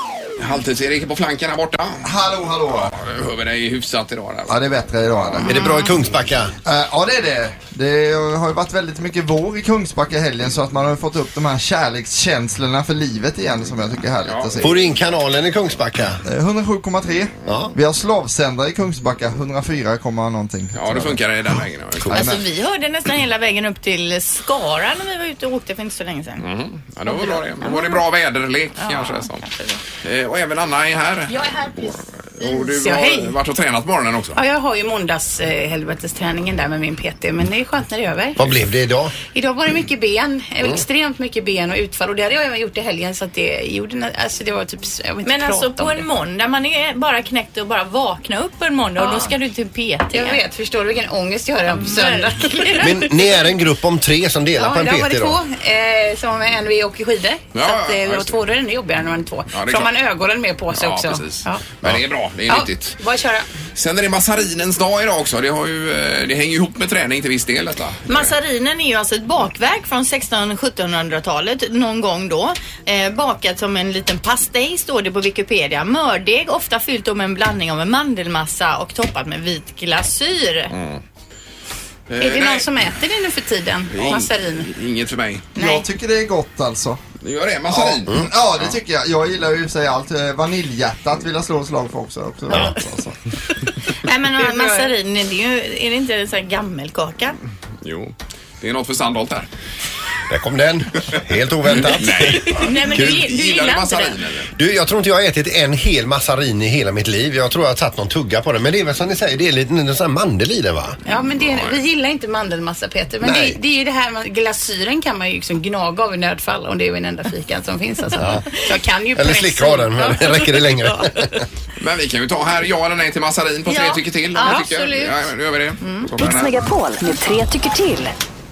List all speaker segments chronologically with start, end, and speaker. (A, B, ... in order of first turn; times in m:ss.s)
0:00.4-0:02.1 A
0:02.0-0:02.9 B
0:02.9-0:04.6 A
0:04.5-0:05.5 B
0:05.4-0:06.5 C
0:05.4-0:05.9 D
0:06.6-0:14.9 B
0:14.2-0:14.8 A
0:14.6-0:16.2 C
0:16.3-0:21.2 B
0:17.4-0:17.8 C
0:20.7-0:22.1 A
0:22.1-0:22.4 B
0:22.1-0:26.4 D
0:26.4-0:29.4 A
0:27.1-0:28.0 D
0:28.8-0:29.8 D
0:30.0-0:34.4 A
0:31.3-0:33.4 E
0:34.4-0:38.4 E
0:38.4-0:39.1 C
0:39.3-0:46.1 E
0:45.2-0:50.4 D
0:49.0-0:49.4 E
0:50.1-0:53.1 E
0:51.8-0:52.9 D
0:52.8-0:55.4 C
0:54.6-1:01.7 E
0:57.5-0:58.4 A
0:59.5-0:59.9 A
1:00.7-1:03.0 A
1:02.5-1:03.5 E
1:03.8-1:08.3 A
1:08.1-1:20.7 D
1:20.7-1:21.0 A
1:22.1-1:22.7 A
1:22.2-1:24.7 E
1:23.9-1:25.5 A
1:25.6-1:25.8 D
1:25.6-1:27.0 B
1:27.2-1:28.8 A
1:27.7-1:33.2 B
1:34.0-1:37.4 D
1:34.4-1:34.9 E
1:37.8-1:39.5 A
1:40.3-1:43.2 C
1:41.8-1:44.5 A
1:42.6-1:44.1 D
1:44.6-1:51.0 C
1:51.0-2:01.3 E
1:51.4-1:51.8 A
1:53.2-1:53.6 C
1:58.1-1:58.6 C
1:59.2-2:01.4 C
2:01.8-2:06.6 A
2:03.7-2:05.3 D
2:04.4-2:04.9 E
2:05.8-2:06.1 D
2:06.2-2:08.2 F